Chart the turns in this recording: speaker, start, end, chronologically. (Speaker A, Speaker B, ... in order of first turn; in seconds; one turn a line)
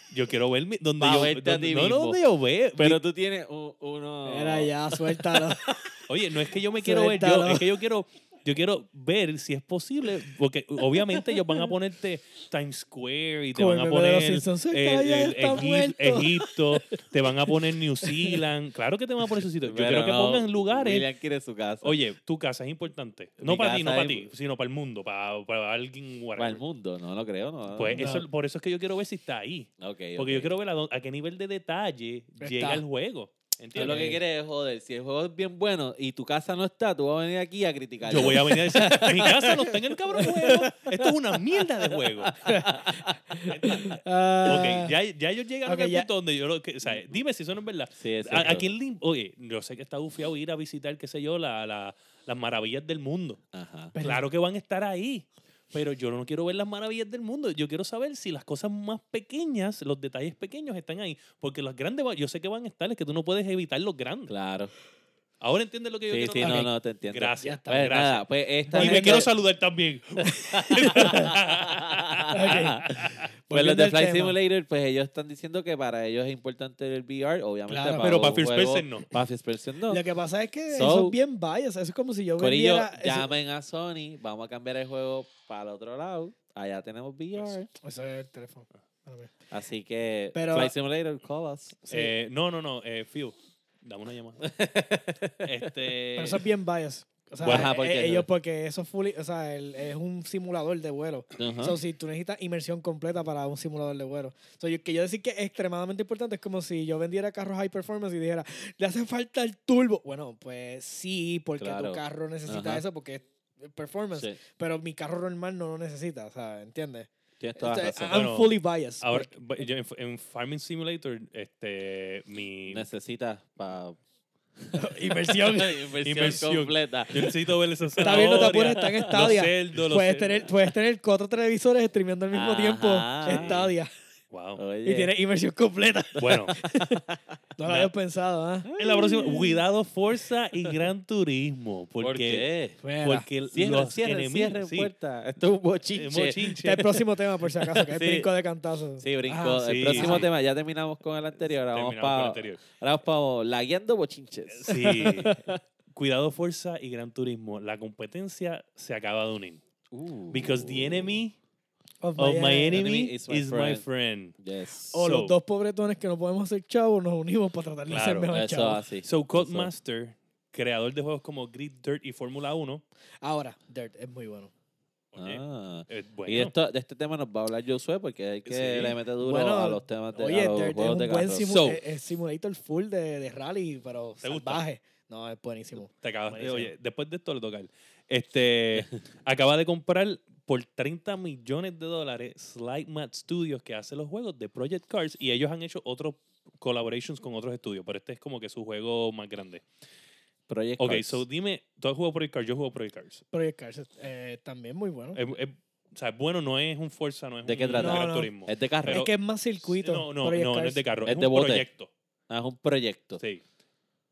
Speaker A: 0.1-3.0
Speaker B: 1.0-2.2
Speaker B: 2.8-5.9
Speaker C: 4.2-5.6
Speaker A: 6.1-21.1
Speaker C: 6.8-7.7
Speaker C: 13.5-16.5
Speaker C: 18.0-18.4
Speaker B: 19.6-22.0
Speaker A: 21.8-26.6
Speaker B: 23.4-24.3
Speaker B: 26.4-28.1
Speaker A: 27.7-34.2
Speaker C: 27.9-28.2
Speaker B: 29.8-30.5
Speaker C: 32.4-32.8
Speaker B: 33.7-43.5
Speaker C: 33.8-34.2
Speaker A: 38.0-42.4
Speaker C: 42.4-44.9
Speaker A: 43.5-53.4
Speaker C: 45.6-46.1
Speaker B: 46.9-47.2
Speaker B: 48.0-48.7
Speaker B: 53.5-53.9
Speaker C: 53.9-54.2
Speaker A: 54.0-64.3
Speaker B: 64.3-64.7
Speaker A: 65.4-73.3
Speaker B: 66.1-69.3
Speaker C: 66.4-66.7
Speaker C: 67.4-67.9
Speaker C: 68.7-69.3
Speaker B: 70.6-73.0
Speaker C: 70.8-71.3
Speaker C: 72.3-72.9
Speaker C: 73.5-74.3
Speaker B: 73.5-80.0
Speaker C: 77.7-78.2
Speaker A: 78.0-79.1
Speaker C: 79.9-83.3
Speaker B: 80.7-81.2
Speaker B: 82.4-87.7
Speaker C: 87.8-89.3
Speaker B: 89.5-91.8
Speaker C: 90.3-90.7
Speaker A: 91.9-94.5
Speaker B: 94.4-96.4
Speaker A: 95.4-96.0
Speaker C: 96.2-119.3
Speaker A: 97.4-97.7
Speaker B: 97.4-98.3
Speaker B: 101.4-101.8
Speaker B: 111.6-112.8
Speaker B: 117.4-118.2
Speaker A: 118.1-122.9
Speaker B: 122.7-124.0
Speaker B: 124.6-127.3
Speaker C: 124.7-125.8
Speaker A: 126.0-130.4
Speaker B: 127.9-129.3
Speaker C: 128.0-133.9
Speaker B: 132.3-133.7
Speaker A: 133.3-133.6
Speaker A: 134.3-134.6
Speaker B: 134.6-135.1
Speaker C: 134.8-137.0
Speaker A: 136.2-136.6
Speaker B: 136.9-137.3
Speaker C: 137.6-138.7
Speaker A: 137.6-137.9
Speaker B: 138.6-139.6
Speaker A: 138.8-142.4
Speaker B: 142.0-142.8
Speaker C: 142.8-143.3
Speaker A: 143.0-144.9
Speaker B: 143.5-146.4
Speaker A: 145.9-147.0
Speaker C: 146.6-150.3
Speaker B: 147.7-148.3
Speaker B: 149.0-155.6
Speaker A: 149.6-150.3
Speaker A: 151.6-152.6
Speaker A: 154.5-155.3
Speaker C: 154.7-155.3
Speaker A: 155.9-159.6
Speaker B: 159.9-161.2
Speaker A: 160.3-161.4
Speaker C: 162.0-162.9
Speaker A: 162.2-164.3
Speaker B: 162.7-163.8
Speaker B: 164.4-165.0
Speaker A: 164.9-165.3
Speaker C: 164.9-168.8
Speaker A: 167.9-168.3
Speaker B: 168.3-169.7
Speaker A: 169.0-172.8
Speaker C: 173.2-174.5
Speaker A: 175.1-176.5
Speaker B: 175.2-181.8
Speaker A: 178.4-179.0
Speaker C: 179.2-186.7
Speaker A: 184.2-184.6
Speaker A: 185.9-199.6
Speaker B: 200.5-201.2
Speaker A: 200.8-203.2
Speaker C: 203.3-205.2
Speaker A: 205.1-209.1
Speaker B: 207.4-209.1
Speaker C: 207.8-208.3
Speaker C: 208.9-210.8
Speaker A: 209.6-211.9
Speaker B: 211.0-211.6
Speaker B: 212.3-213.2